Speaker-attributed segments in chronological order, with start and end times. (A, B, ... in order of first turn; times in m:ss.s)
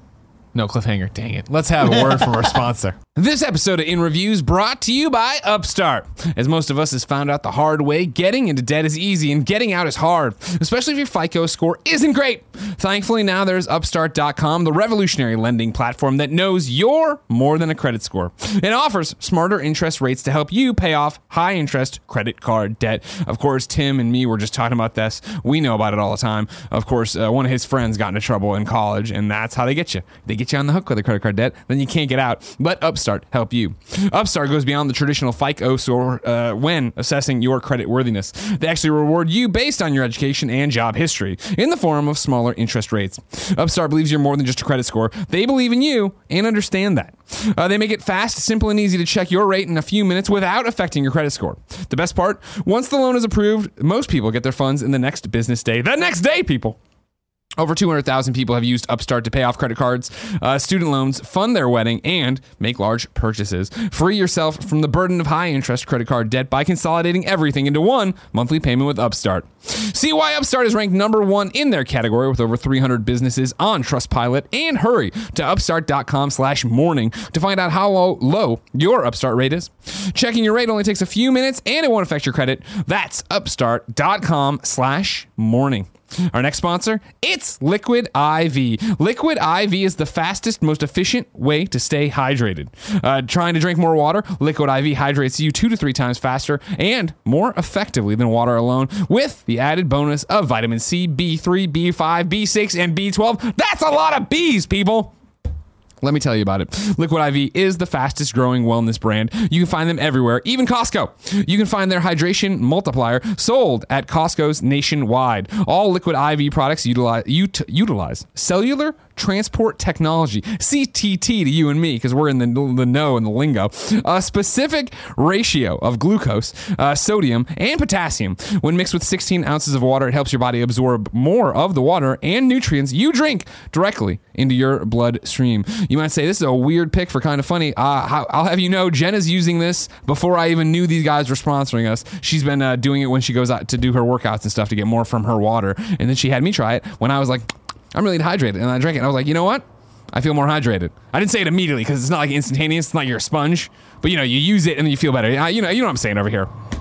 0:00.5-0:56.8 A
0:57.6-1:45.1 A
1:46.0-2:36.5 A